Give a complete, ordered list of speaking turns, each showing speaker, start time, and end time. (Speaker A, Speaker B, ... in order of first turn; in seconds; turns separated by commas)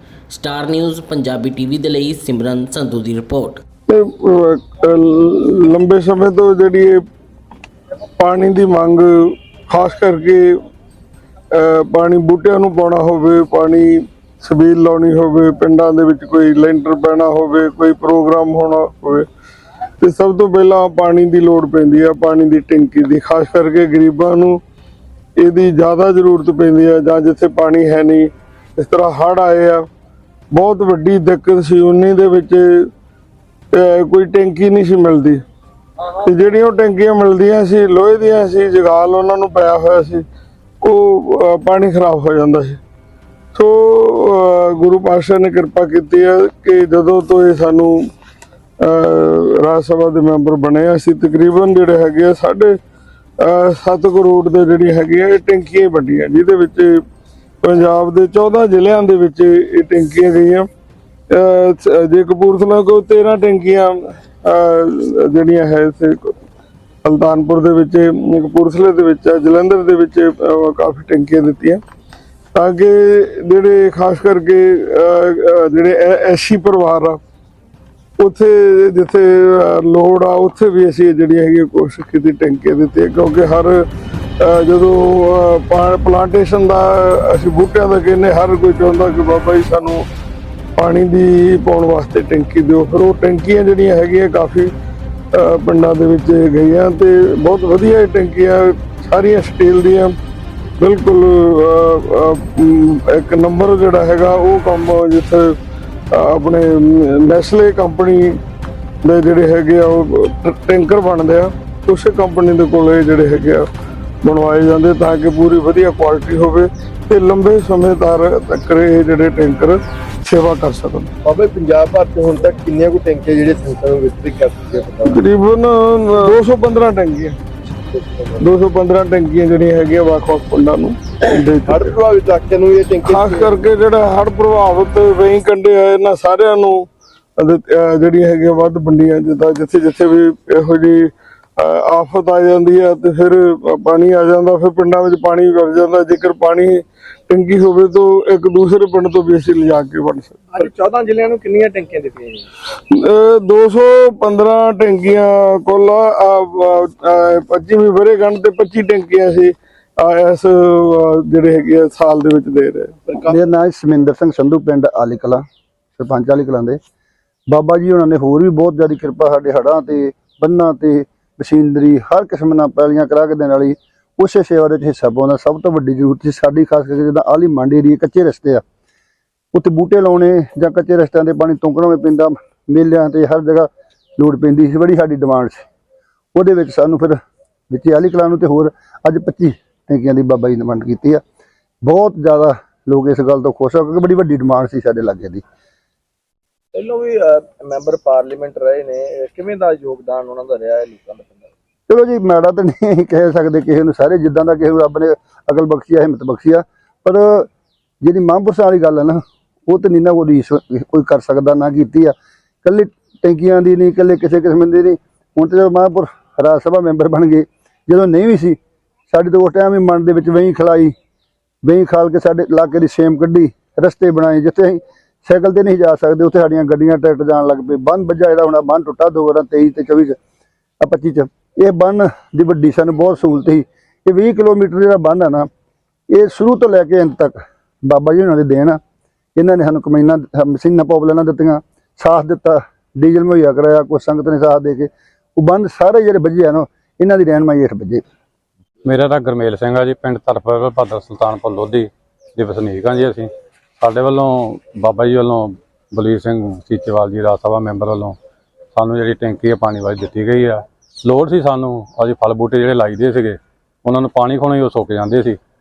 Speaker A: 0.3-3.6, Speaker B: 3.9-7.0, Speaker B: 8.2-10.6, Speaker B: 11.5-19.3, Speaker B: 20.0-24.6, Speaker B: 25.4-29.8, Speaker B: 30.5-32.9, Speaker B: 33.7-35.4, Speaker B: 36.2-40.2, Speaker B: 40.8-42.8, Speaker B: 43.5-48.0, Speaker B: 48.8-52.8, Speaker B: 53.4-57.0, Speaker B: 57.6-60.7, Speaker B: 61.3-66.3, Speaker B: 67.0-71.8, Speaker B: 72.5-77.2, Speaker B: 78.2-83.9, Speaker B: 84.4-90.0, Speaker B: 90.8-94.7, Speaker B: 95.3-100.1, Speaker B: 100.8-105.6, Speaker B: 106.1-108.4, Speaker B: 109.0-113.7, Speaker B: 114.2-121.1, Speaker C: 121.2-125.2, Speaker B: 125.1-127.4, Speaker C: 127.9-128.5, Speaker B: 128.4-131.9, Speaker C: 131.7-133.6, Speaker B: 133.0-136.8, Speaker B: 137.4-150.7, Speaker C: 150.5-152.5, Speaker B: 152.9-163.1, Speaker D: 163.3-165.4, Speaker D: 166.0-166.8, Speaker D: 167.5-178.6, Speaker D: 179.5-185.7, Speaker D: 186.3-187.2, Speaker D: 187.7-191.2, Speaker D: 191.8-195.4, Speaker C: 196.7-201.5, Speaker D: 201.9-207.5, Speaker D: 208.0-218.6, Speaker D: 219.1-220.9, Speaker D: 221.7-230.2, Speaker D: 230.8-235.5, Speaker D: 236.1-238.8, Speaker D: 239.4-248.0, Speaker E: 248.8-253.3, Speaker E: 253.8-258.2, Speaker E: 258.8-265.4